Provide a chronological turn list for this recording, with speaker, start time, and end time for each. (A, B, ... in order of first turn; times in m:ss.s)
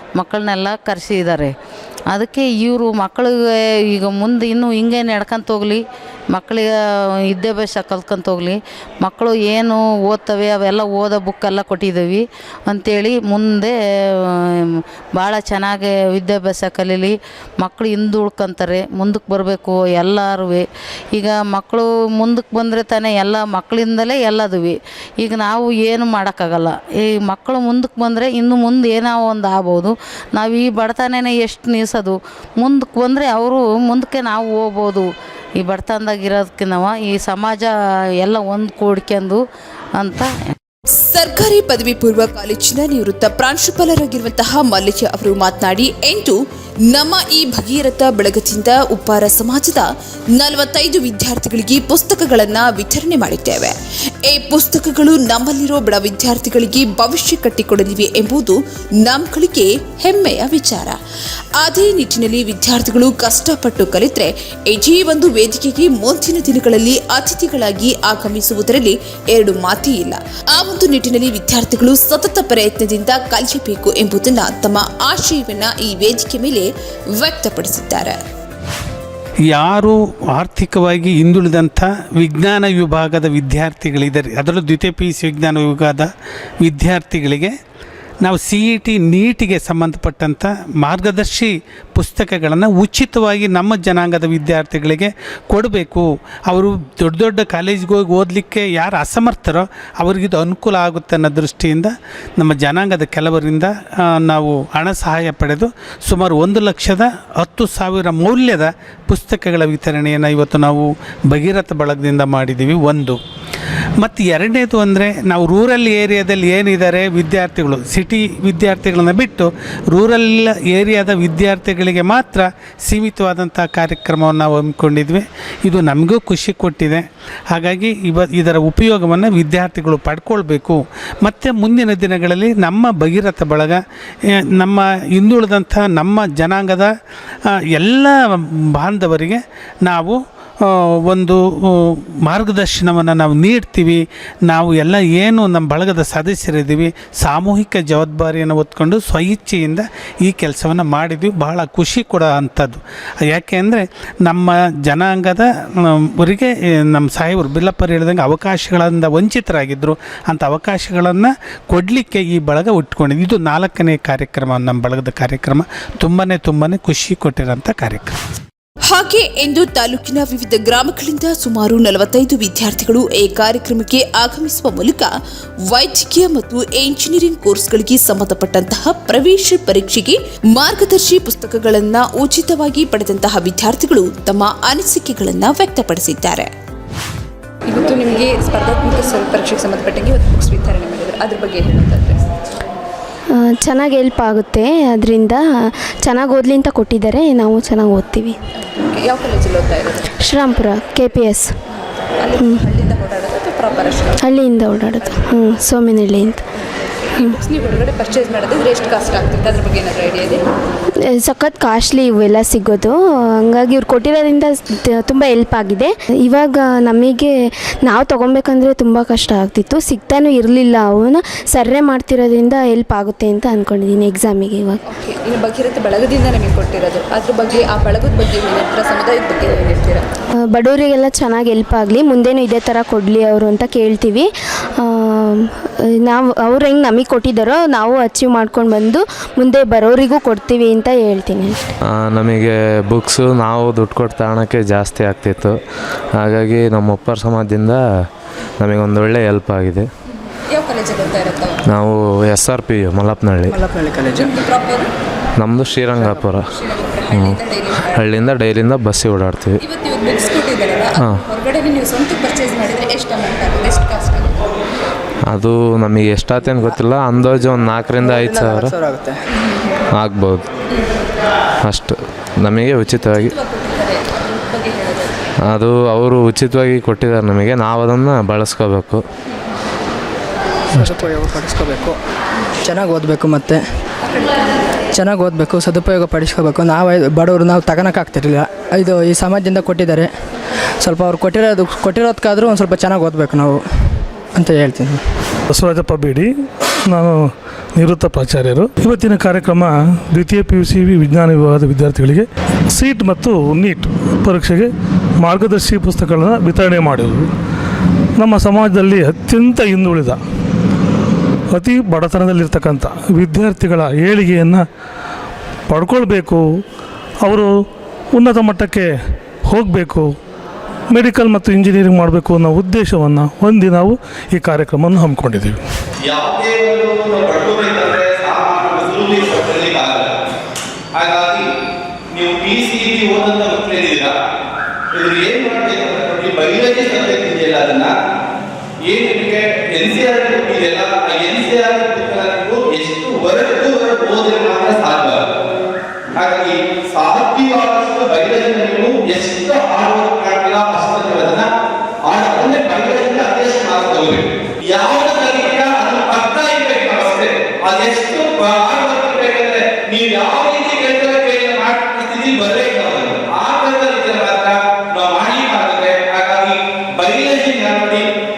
0:00.2-0:01.5 A
0:02.1-0:35.1 A
0:35.6-0:39.4 A
0:40.0-0:40.4 A
0:41.0-0:46.4 B
0:46.9-0:53.7 B
0:54.3-1:01.0 B
1:01.6-1:18.2 B
1:19.5-1:26.1 C
1:26.6-1:27.5 C
1:28.2-1:53.2 C
1:54.0-2:13.8 C
2:14.6-2:16.9 C
2:17.7-2:18.2 C
2:18.8-2:48.1 C
2:48.9-2:55.1 B
2:55.7-3:06.5 B
3:07.7-3:12.2 D
3:13.4-3:15.4 E
3:16.0-3:18.4 E
3:18.8-3:20.0 D
3:20.2-3:21.5 E
3:22.2-3:24.2 D
3:22.4-3:22.7 E
3:24.2-3:26.4 E
3:27.0-3:30.4 D
3:31.1-3:37.3 E
3:37.8-3:44.8 E
3:44.9-3:50.0 D
3:50.5-3:54.3 E
3:54.8-3:55.5 E
3:56.0-4:01.7 E
4:01.9-4:05.6 F
4:06.2-4:07.8 F
4:08.6-4:09.9 F
4:10.5-4:11.6 D
4:11.7-4:13.6 F
4:13.5-4:14.1 G
4:14.1-4:14.9 D
4:15.4-4:16.4 F
4:16.5-4:18.3 D
4:17.1-4:17.4 F
4:17.9-4:19.6 F
4:19.6-4:24.5 D
4:25.3-4:28.8 F
4:28.0-4:29.1 G
4:30.0-4:30.5 F
4:31.7-4:33.3 F
4:33.0-4:35.3 D
4:35.5-4:39.0 F
4:40.8-4:42.0 G
4:42.7-4:43.6 G
4:44.1-4:44.4 D
4:45.0-4:50.1 G
4:50.8-4:53.6 G
4:54.4-4:55.0 G
4:55.5-4:56.3 H
4:56.9-4:57.2 H
4:57.8-5:04.7 H
5:05.2-5:07.3 H
5:08.2-5:10.2 H
5:11.5-5:14.6 H
5:15.7-5:16.4 H
5:17.2-5:17.5 H
5:18.1-5:18.9 H
5:19.5-5:20.1 H
5:20.9-5:25.6 H
5:26.1-5:30.1 I
5:31.0-5:31.4 I
5:32.2-5:34.1 I
5:35.0-5:37.9 I
5:38.9-5:45.2 I
5:46.2-5:51.5 I
5:52.1-5:54.2 I
5:54.7-6:08.0 I